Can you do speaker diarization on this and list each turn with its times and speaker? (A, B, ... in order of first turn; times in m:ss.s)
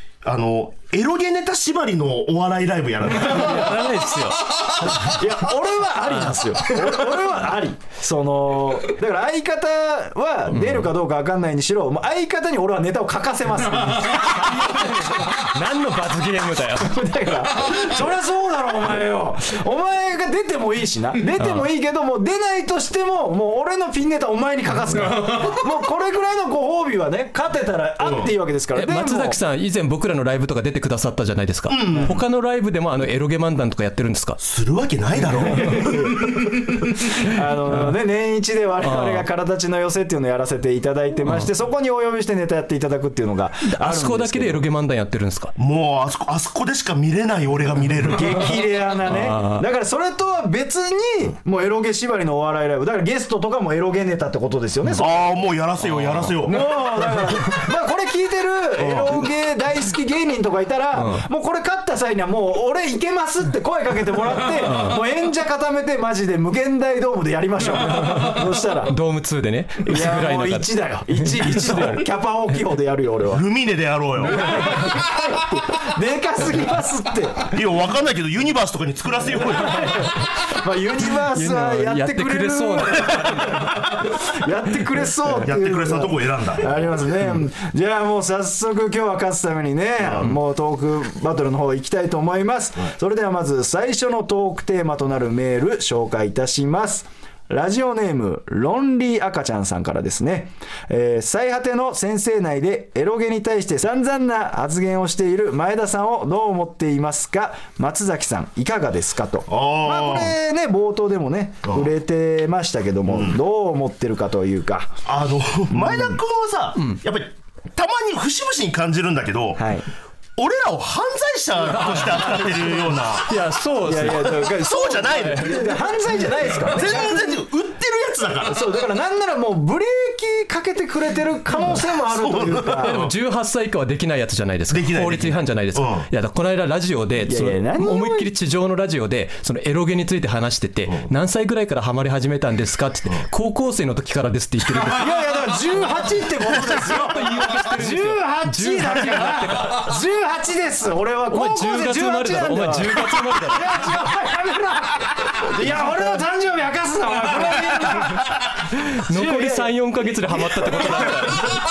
0:00.2-0:03.8 A
0:03.2-0:05.1 B
0:04.8-0:15.5 C
0:10.5-0:10.9 B
0:14.3-0:17.0 B
0:16.8-0:29.4 C
0:21.4-0:21.7 B
0:28.0-0:28.3 A
0:28.8-0:34.4 B
0:31.7-0:32.2 A
0:34.4-0:36.1 A
0:35.6-0:44.6 C
0:38.8-0:39.2 B
0:43.6-0:45.5 B
0:45.6-0:48.5 A
0:48.1-0:55.2 C
0:49.1-0:49.6 B
0:55.0-0:56.7 A
0:55.8-0:56.4 B
0:56.4-1:09.0 C
0:58.8-0:59.3 A
1:01.0-1:01.2 B
1:04.6-1:05.0 B
1:08.0-1:12.0 B
1:09.8-1:13.4 C
1:13.3-1:14.6 A
1:14.2-1:17.6 C
1:17.5-1:20.0 A
1:19.4-1:54.9 C
1:21.2-1:23.8 B
1:25.4-1:27.0 A
1:30.0-1:30.3 A
1:49.5-1:50.4 A
1:53.1-1:53.4 A
1:55.1-1:59.7 A
1:55.7-1:56.2 C
1:59.6-1:59.9 C
2:00.4-2:03.4 A
2:01.8-2:02.6 B
2:03.2-2:05.6 B
2:03.8-2:07.4 C
2:04.2-2:05.8 A
2:06.6-2:08.7 A
2:08.5-2:13.0 C
2:12.1-2:13.1 A
2:12.8-2:25.2 B
2:14.7-2:16.1 A
2:17.3-2:18.3 C
2:24.9-2:39.7 C
2:26.6-2:29.9 B
2:31.3-2:33.8 B
2:38.8-2:41.6 B